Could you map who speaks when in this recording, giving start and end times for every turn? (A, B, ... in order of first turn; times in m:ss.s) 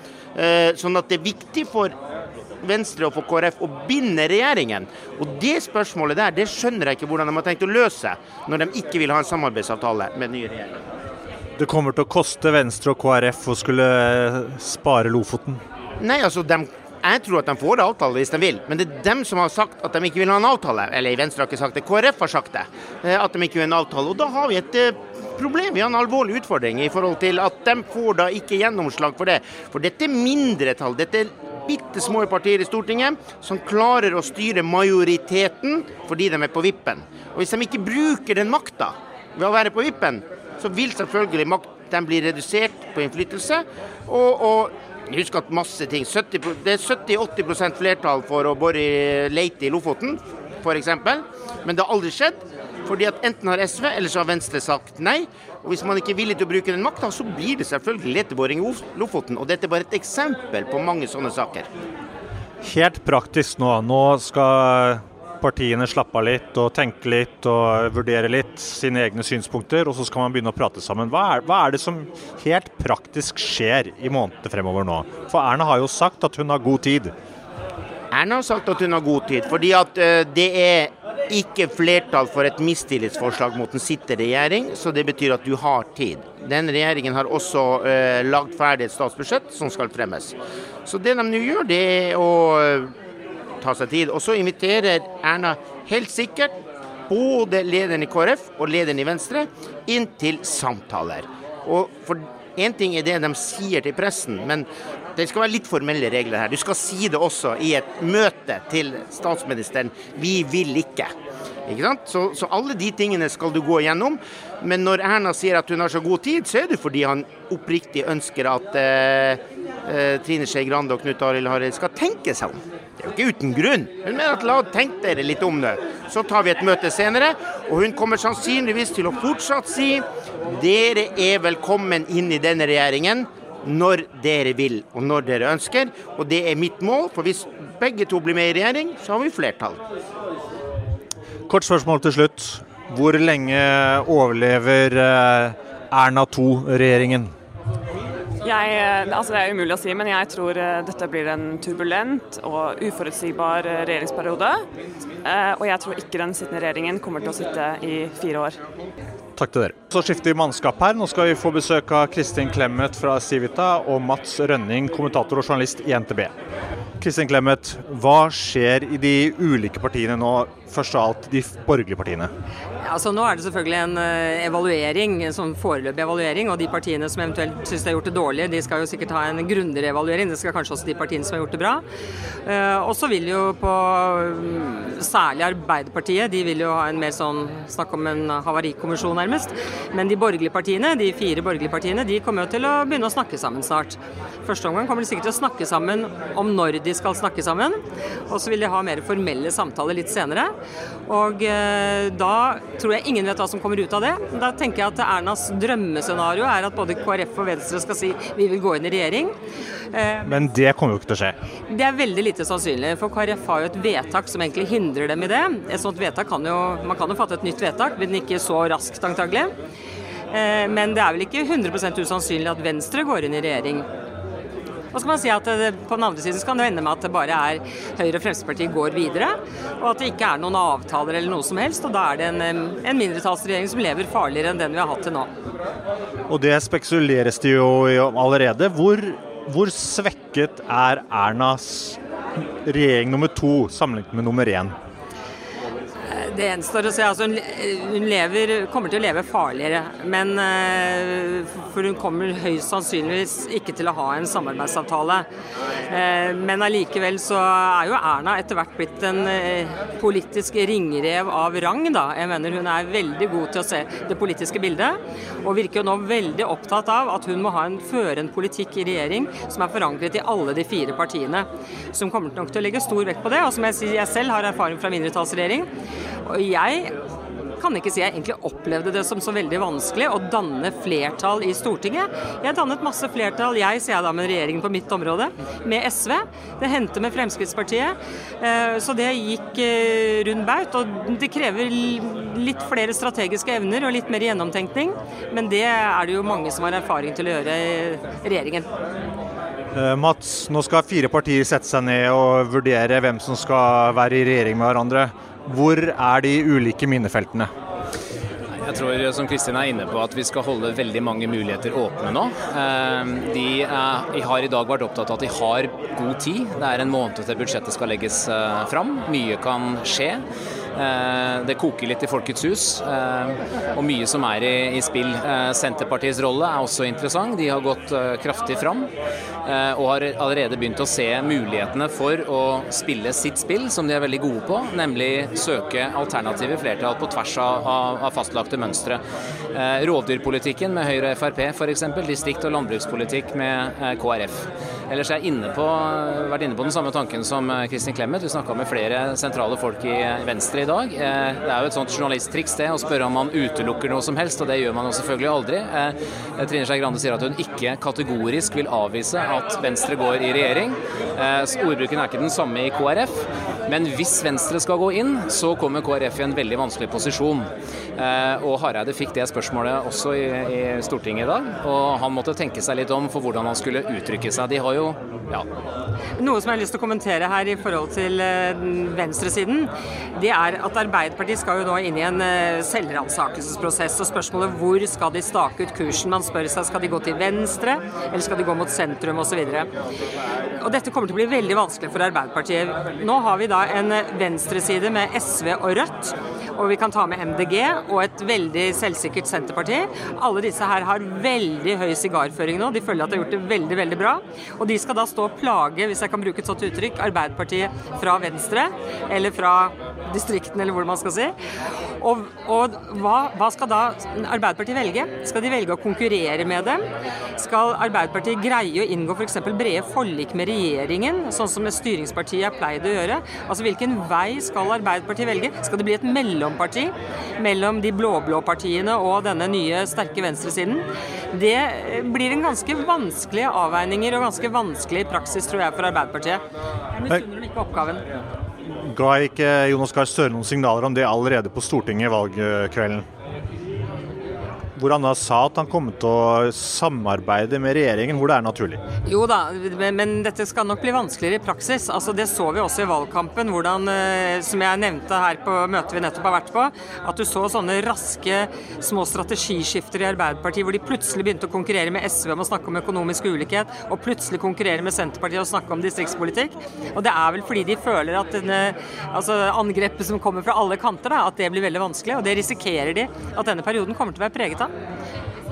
0:00.4-0:01.9 A
0:02.6-0:10.8 A
0:11.6-0:15.6 B
0:16.0-1:01.7 A
1:02.6-1:17.1 B
1:18.1-1:32.9 A
1:33.6-1:36.5 A
1:37.1-1:51.1 A
1:51.7-2:19.8 A
2:21.5-2:27.3 B
2:28.4-2:34.6 C
2:35.2-2:38.6 C
2:39.4-2:46.3 B
2:47.0-2:52.3 B
2:52.8-3:01.8 D
3:02.5-3:20.5 D
3:21.1-3:29.4 D
3:29.9-3:30.4 D
3:30.2-3:31.4 B
3:31.7-3:39.5 D
3:40.3-3:43.9 D
3:44.9-3:55.3 D
3:56.3-4:02.0 B
4:02.6-4:04.7 B
4:06.1-4:15.3 D
4:15.9-4:35.7 D
4:36.3-4:36.9 D
4:37.6-4:58.7 D
4:59.8-5:07.5 B
5:08.6-5:20.2 E
5:20.8-5:28.9 E
5:29.4-5:39.0 E
5:39.5-6:15.5 E
6:16.2-6:29.7 D
6:30.6-6:51.4 D
6:52.0-6:56.8 D
6:57.4-7:16.4 D
7:16.9-7:18.0 D
7:18.7-7:23.0 B
7:24.8-7:28.8 B
7:29.1-7:54.7 D